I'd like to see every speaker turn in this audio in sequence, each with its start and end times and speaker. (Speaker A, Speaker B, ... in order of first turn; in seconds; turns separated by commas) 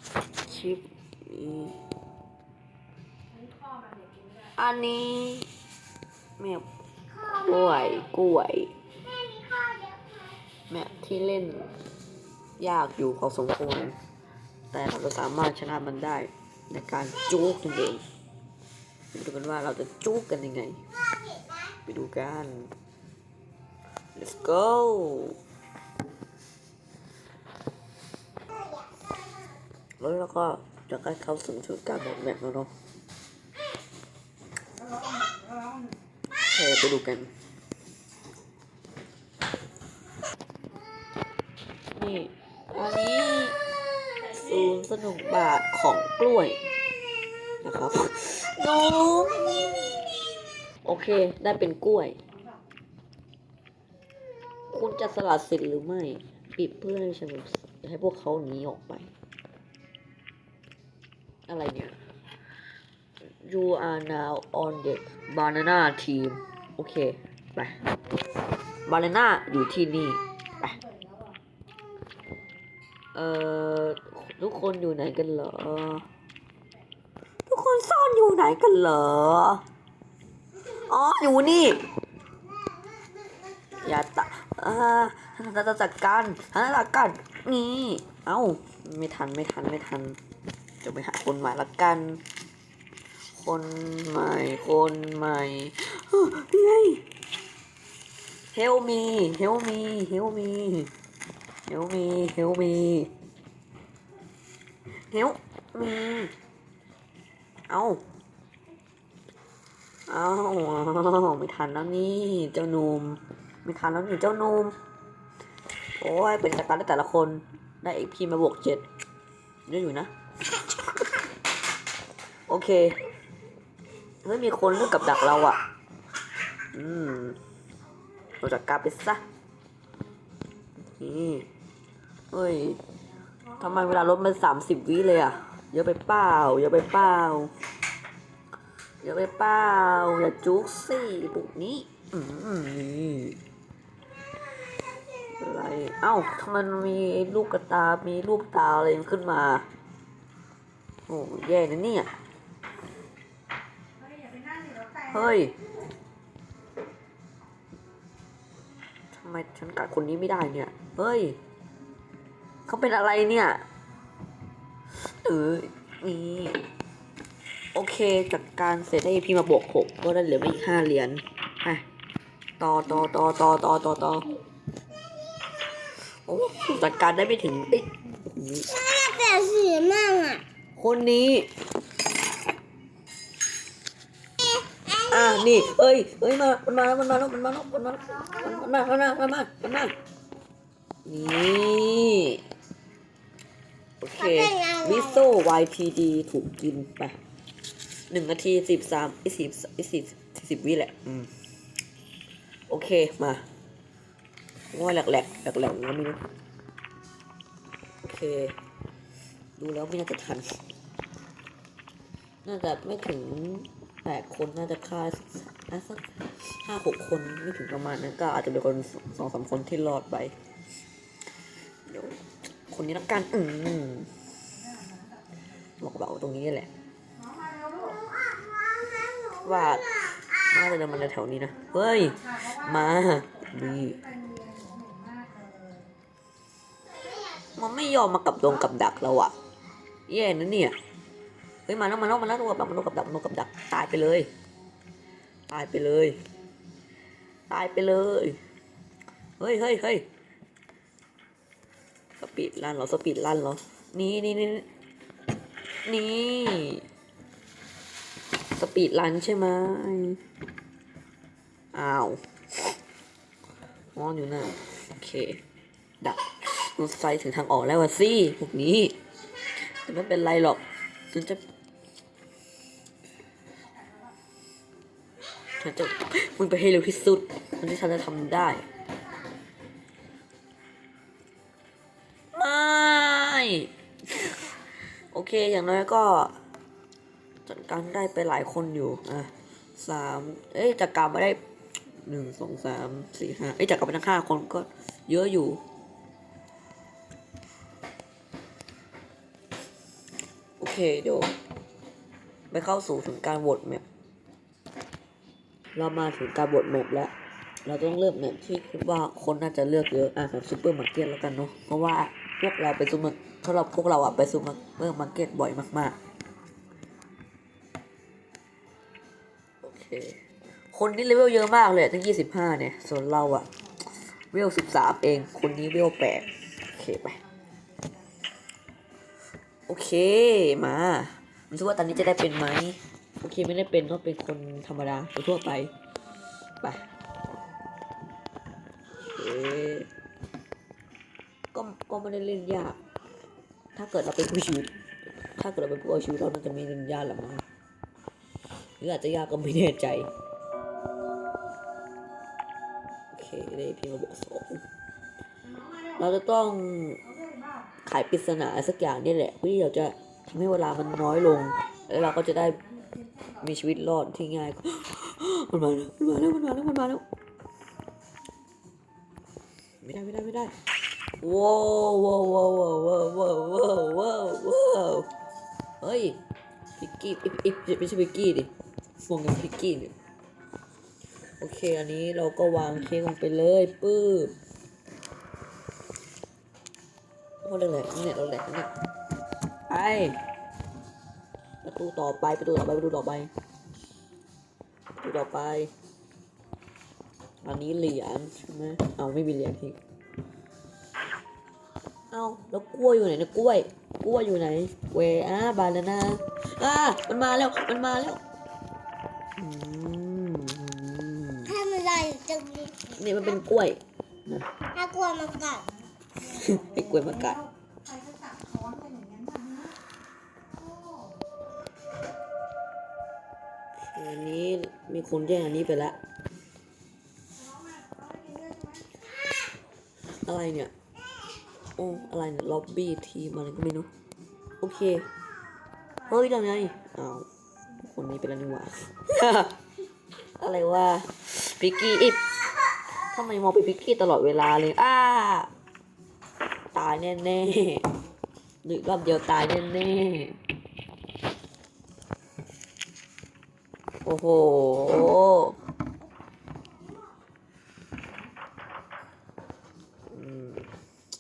Speaker A: 0.4-1.8, Speaker B: 3.6-4.1, Speaker A: 4.6-5.5, Speaker A: 6.4-6.7, Speaker A: 7.2-8.7, Speaker A: 10.7-11.7, Speaker A: 12.6-14.0, Speaker A: 14.7-18.0, Speaker A: 19.1-20.8, Speaker A: 21.9-22.7, Speaker A: 24.2-25.4, Speaker A: 30.0-32.7, Speaker A: 36.4-37.3, Speaker A: 42.0-43.6, Speaker A: 44.2-46.6, Speaker A: 47.6-49.9, Speaker A: 50.8-52.2, Speaker A: 54.7-59.1, Speaker A: 61.5-62.0, Speaker A: 63.4-67.8, Speaker A: 68.9-70.8, Speaker A: 73.2-76.1, Speaker A: 77.5-79.6, Speaker A: 80.7-81.9, Speaker A: 83.8-90.2, Speaker A: 90.8-92.2, Speaker A: 93.3-97.0, Speaker A: 98.5-100.9, Speaker A: 101.7-103.1, Speaker A: 105.1-106.3, Speaker A: 107.7-108.0, Speaker A: 110.1-114.8, Speaker A: 116.0-118.8, Speaker A: 119.7-120.1, Speaker A: 122.5-123.0, Speaker A: 124.2-125.6, Speaker A: 126.7-127.4, Speaker A: 128.4-129.2, Speaker A: 130.9-131.5, Speaker A: 132.3-132.8, Speaker A: 133.6-137.5, Speaker A: 139.0-143.4, Speaker A: 145.4-149.7, Speaker A: 151.1-152.1, Speaker B: 154.0-155.0, Speaker A: 155.0-155.6, Speaker A: 159.1-161.4, Speaker A: 162.7-163.7, Speaker A: 164.9-166.6, Speaker A: 167.8-171.8, Speaker A: 172.6-174.3, Speaker A: 176.3-179.5, Speaker A: 180.8-181.5, Speaker A: 184.9-189.9, Speaker A: 191.1-192.4, Speaker A: 194.0-197.2, Speaker A: 198.1-201.3, Speaker A: 202.7-203.4, Speaker A: 204.7-206.2, Speaker A: 208.0-208.6, Speaker A: 209.6-210.6, Speaker A: 212.4-220.3, Speaker A: 221.9-224.1, Speaker B: 224.8-225.1, Speaker A: 225.8-226.7, Speaker B: 227.2-228.2, Speaker A: 229.3-234.0, Speaker B: 234.0-235.9, Speaker A: 237.6-239.4, Speaker A: 240.1-240.8, Speaker A: 241.7-244.3, Speaker A: 245.5-246.2, Speaker A: 247.5-248.4, Speaker A: 249.4-250.1, Speaker A: 252.2-254.7, Speaker A: 255.9-256.9, Speaker A: 258.5-260.2, Speaker A: 261.7-262.7, Speaker A: 263.9-265.4, Speaker A: 266.0-268.9, Speaker A: 269.6-271.4, Speaker A: 275.6-278.7, Speaker A: 282.4-284.5, Speaker A: 285.1-286.3, Speaker A: 287.5-291.4, Speaker A: 292.1-295.6, Speaker A: 300.6-301.3, Speaker A: 302.5-303.8, Speaker A: 305.8-307.1, Speaker A: 307.6-316.0, Speaker A: 319.6-320.2, Speaker A: 320.7-323.5, Speaker A: 324.1-327.2, Speaker A: 329.7-335.7, Speaker A: 339.0-339.9, Speaker A: 341.5-342.8, Speaker A: 343.8-344.7, Speaker A: 345.3-347.4, Speaker A: 348.8-350.1, Speaker A: 353.1-354.6, Speaker A: 355.9-357.0, Speaker A: 357.8-362.6, Speaker A: 363.4-367.0, Speaker A: 369.8-370.5, Speaker A: 371.2-375.1, Speaker A: 375.8-376.2, Speaker A: 376.8-378.5, Speaker A: 379.0-379.9, Speaker A: 381.4-384.3, Speaker A: 387.4-388.7, Speaker A: 389.7-390.2, Speaker A: 391.6-393.3, Speaker A: 395.0-395.7, Speaker A: 397.4-399.8, Speaker A: 402.1-408.2, Speaker A: 409.4-411.9, Speaker A: 412.8-414.5, Speaker B: 415.0-415.7, Speaker A: 416.2-417.4, Speaker B: 417.9-419.7, Speaker A: 423.9-426.0, Speaker B: 427.4-428.9, Speaker A: 430.2-430.7, Speaker A: 431.8-433.9, Speaker A: 434.6-435.1, Speaker A: 436.1-437.3, Speaker A: 437.9-439.6, Speaker A: 440.4-442.2, Speaker A: 443.1-445.5, Speaker A: 446.7-447.9, Speaker A: 448.6-450.4, Speaker A: 454.1-455.6, Speaker A: 460.1-460.7